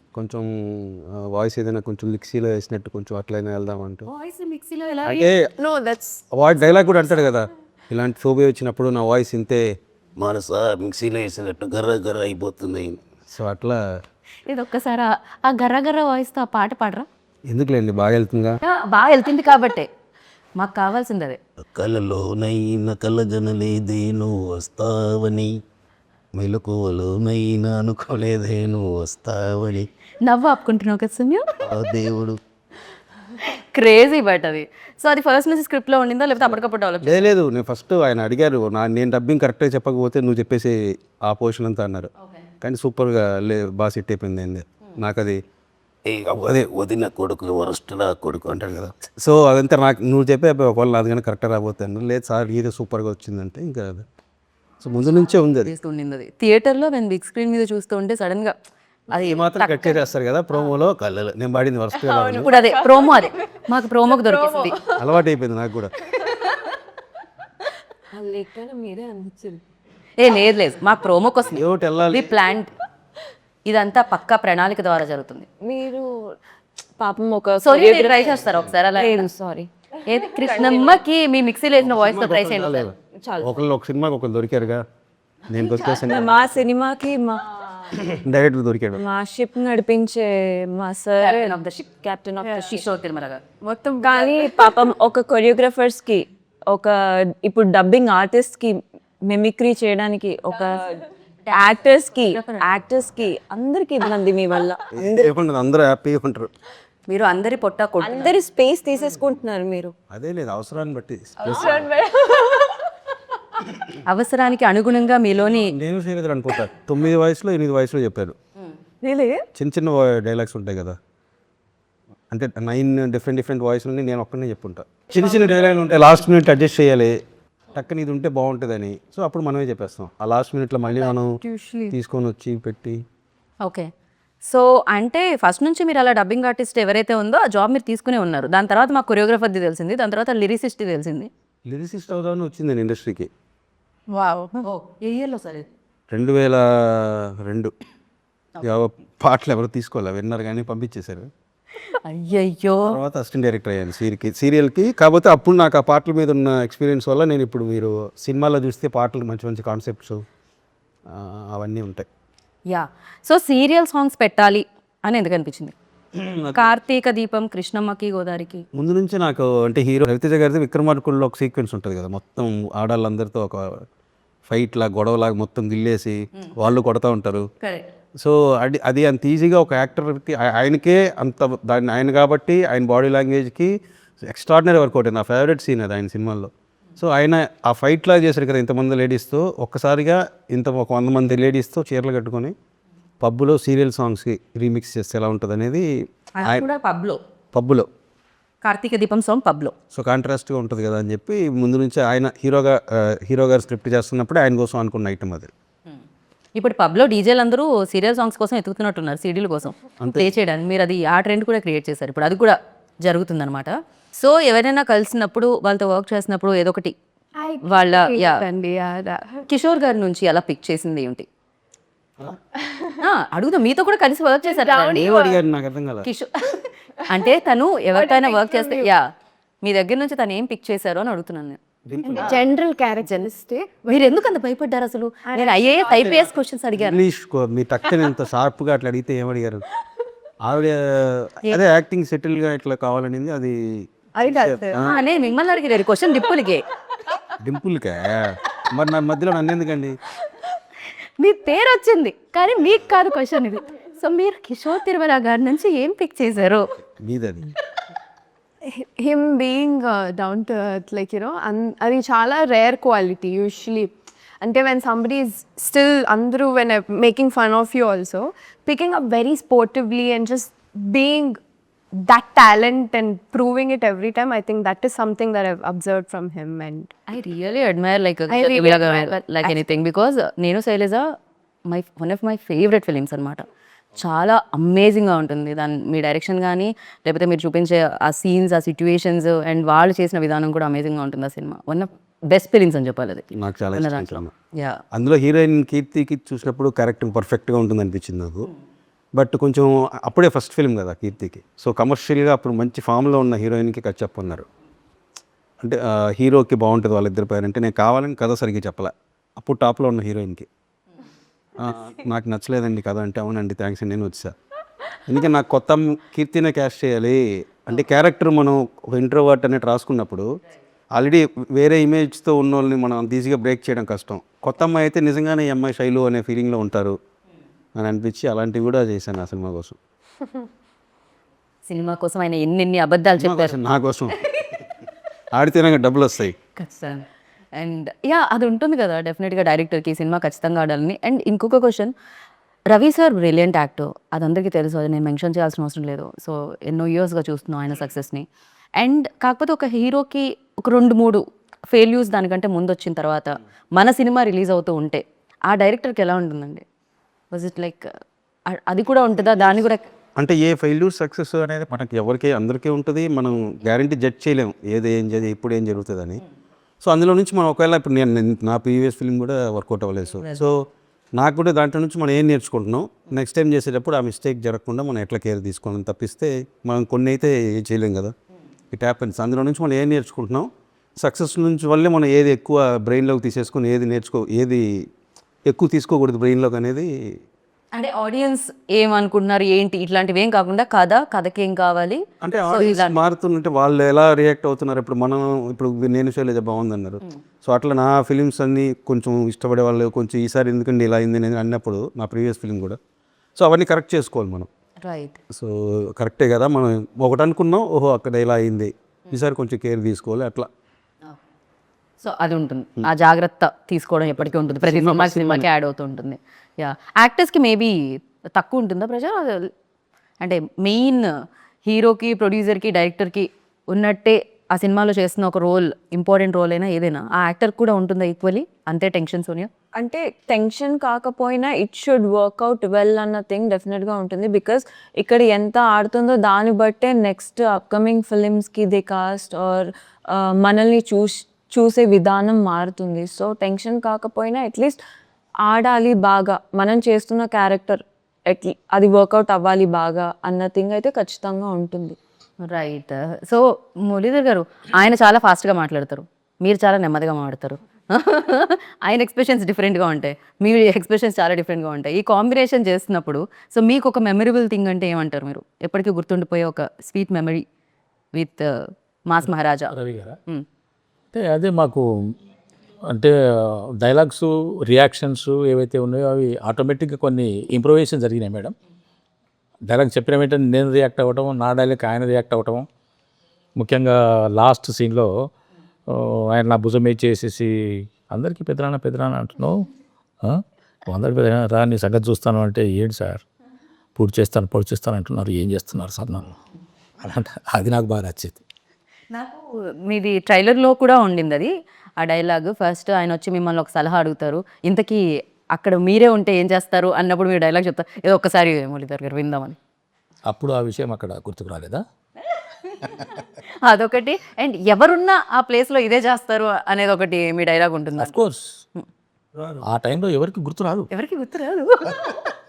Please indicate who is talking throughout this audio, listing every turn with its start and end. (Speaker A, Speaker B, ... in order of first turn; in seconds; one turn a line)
Speaker A: 0.1-4.1
Speaker B: 4.1-5.3
Speaker A: 5.0-5.5
Speaker C: 5.6-6.2
Speaker A: 6.3-13.8
Speaker B: 14.4-17.1
Speaker A: 17.5-18.6
Speaker B: 18.6-19.9
Speaker B: 20.6-21.4
Speaker A: 21.8-25.5
Speaker A: 26.4-29.9
Speaker B: 30.2-31.5
Speaker A: 31.6-32.4
Speaker B: 33.4-37.3
Speaker A: 37.0-45.4
Speaker B: 42.2-42.5
Speaker A: 46.1-54.0
Speaker A: 54.8-55.7
Speaker B: 55.6-58.5
Speaker B: 59.1-59.9
Speaker A: 59.1-62.5
Speaker C: 62.1-63.2
Speaker B: 62.4-64.8
Speaker C: 64.1-64.9
Speaker A: 64.9-65.9
Speaker C: 66.2-66.5
Speaker D: 68.1-69.6
Speaker B: 70.2-72.7
Speaker A: 71.5-72.3
Speaker B: 73.7-75.5
Speaker D: 75.6-76.4
Speaker D: 77.0-81.0
Speaker B: 77.6-79.2
Speaker B: 80.0-82.9
Speaker A: 81.8-84.8
Speaker D: 83.2-83.5
Speaker A: 85.5-86.7
Speaker D: 85.6-87.9
Speaker A: 87.9-89.0
Speaker D: 89.0-92.8
Speaker B: 91.2-91.7
Speaker C: 92.4-92.7
Speaker B: 92.7-93.4
Speaker C: 93.6-94.8
Speaker D: 94.0-105.2
Speaker B: 102.3-102.6
Speaker A: 104.9-106.5
Speaker B: 107.1-108.3
Speaker D: 108.0-109.9
Speaker A: 110.1-111.9
Speaker D: 111.4-112.8
Speaker B: 114.0-115.7
Speaker A: 115.6-118.3
Speaker D: 119.0-119.4
Speaker A: 119.5-121.0
Speaker A: 122.3-127.2
Speaker A: 127.7-131.4
Speaker C: 131.4-131.9
Speaker A: 131.9-133.0
Speaker B: 133.6-133.9
Speaker B: 134.5-141.3
Speaker A: 141.7-143.3
Speaker C: 144.1-144.7
Speaker B: 144.6-145.7
Speaker A: 146.1-147.7
Speaker A: 148.6-151.3
Speaker B: 151.8-153.0
Speaker A: 152.9-160.2
Speaker A: 161.1-162.1
Speaker B: 162.7-165.7
Speaker A: 166.1-166.7
Speaker B: 166.5-168.6
Speaker A: 168.7-173.8
Speaker A: 174.5-177.5
Speaker B: 177.6-177.9
Speaker A: 178.2-192.5
Speaker A: 193.2-195.9
Speaker B: 196.4-197.2
Speaker A: 197.5-197.9
Speaker B: 198.6-199.7
Speaker A: 199.9-205.5
Speaker B: 206.5-216.9
Speaker A: 210.0-210.3
Speaker C: 217.4-219.4
Speaker B: 217.6-218.4
Speaker B: 219.5-221.2
Speaker C: 222.7-223.0
Speaker B: 223.0-225.1
Speaker C: 224.4-225.4
Speaker A: 224.8-226.1
Speaker B: 226.0-229.1
Speaker C: 227.9-228.9
Speaker B: 229.6-231.6
Speaker A: 231.8-232.4
Speaker C: 232.2-234.1
Speaker B: 232.2-232.4
Speaker B: 233.9-237.0
Speaker C: 235.3-236.3
Speaker A: 236.7-239.6
Speaker A: 240.4-245.0
Speaker C: 244.1-244.8
Speaker B: 244.8-246.6
Speaker A: 247.4-250.0
Speaker B: 251.2-256.7
Speaker A: 257.0-257.5
Speaker C: 258.6-271.4
Speaker C: 271.9-276.9
Speaker B: 277.1-281.1
Speaker C: 278.3-279.6
Speaker B: 281.7-283.4
Speaker B: 284.0-294.8
Speaker A: 293.3-294.3
Speaker A: 294.9-298.5
Speaker A: 299.1-304.4
Speaker A: 305.6-310.5
Speaker A: 311.6-314.3
Speaker A: 315.1-320.3
Speaker A: 320.9-327.0
Speaker A: 327.8-329.8
Speaker B: 331.7-333.6
Speaker A: 333.2-334.5
Speaker A: 335.3-336.4
Speaker B: 336.6-341.9
Speaker B: 342.7-348.3
Speaker B: 348.8-356.6
Speaker B: 357.3-357.9
Speaker B: 358.5-359.9
Speaker A: 360.2-366.2
Speaker A: 366.8-370.6
Speaker A: 371.1-378.1
Speaker A: 378.7-384.8
Speaker A: 385.4-386.9
Speaker B: 387.7-392.9
Speaker A: 392.2-402.8
Speaker A: 403.4-404.5
Speaker B: 404.8-405.2
Speaker A: 405.3-410.5
Speaker B: 412.0-419.5
Speaker A: 414.2-415.5
Speaker B: 420.2-421.1
Speaker B: 421.6-429.5
Speaker D: 429.7-444.8
Speaker D: 445.4-452.0
Speaker B: 452.4-467.4
Speaker B: 468.1-469.7
Speaker E: 469.7-470.2
Speaker E: 471.1-472.1
Speaker E: 472.9-478.5
Speaker E: 479.6-482.7
Speaker E: 483.6-485.3
Speaker E: 485.9-489.7
Speaker E: 490.2-493.2
Speaker E: 493.9-496.4
Speaker E: 497.0-498.4
Speaker B: 499.1-509.6
Speaker E: 510.3-511.8
Speaker B: 513.6-518.2
Speaker E: 518.0-518.6
Speaker A: 519.3-519.6
Speaker E: 519.6-520.9
Speaker B: 520.9-522.2